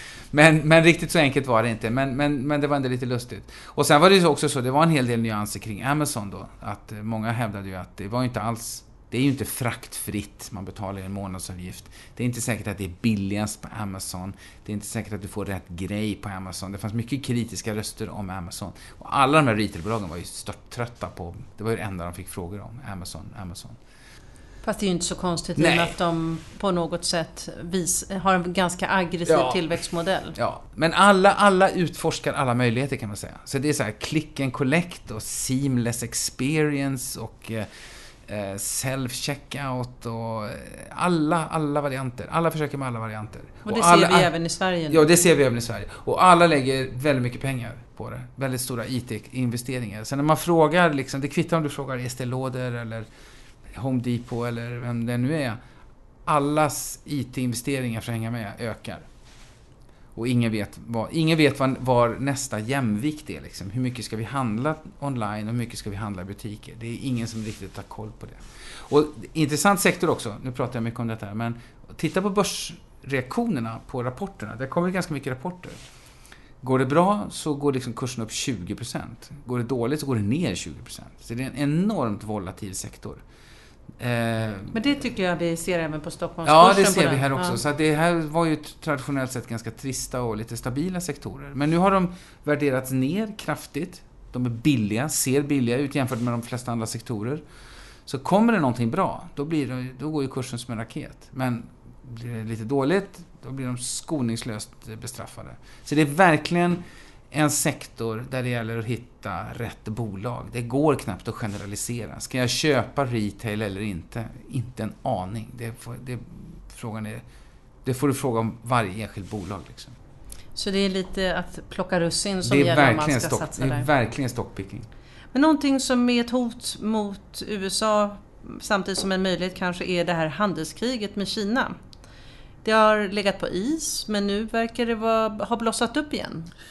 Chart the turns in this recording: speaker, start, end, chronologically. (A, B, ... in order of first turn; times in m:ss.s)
0:00.3-0:23.8 A
0:24.6-0:30.4 B
0:25.6-0:26.0 A
0:29.3-0:29.8 A
0:30.4-0:37.7 A
0:38.3-0:44.3 A
0:43.6-0:45.1 B
0:44.9-0:53.1 A
0:53.8-0:55.6 A
0:56.3-0:59.1 A
1:00.2-1:15.8 A
1:16.6-1:23.2 A
1:24.0-1:24.8 A
1:24.7-1:27.6 B
1:26.4-1:37.4 A
1:38.1-1:57.2 A
1:57.8-2:00.0 A
2:00.6-2:03.9 B
2:02.4-2:04.9 A
2:05.3-2:11.8 B
2:12.6-2:16.5 B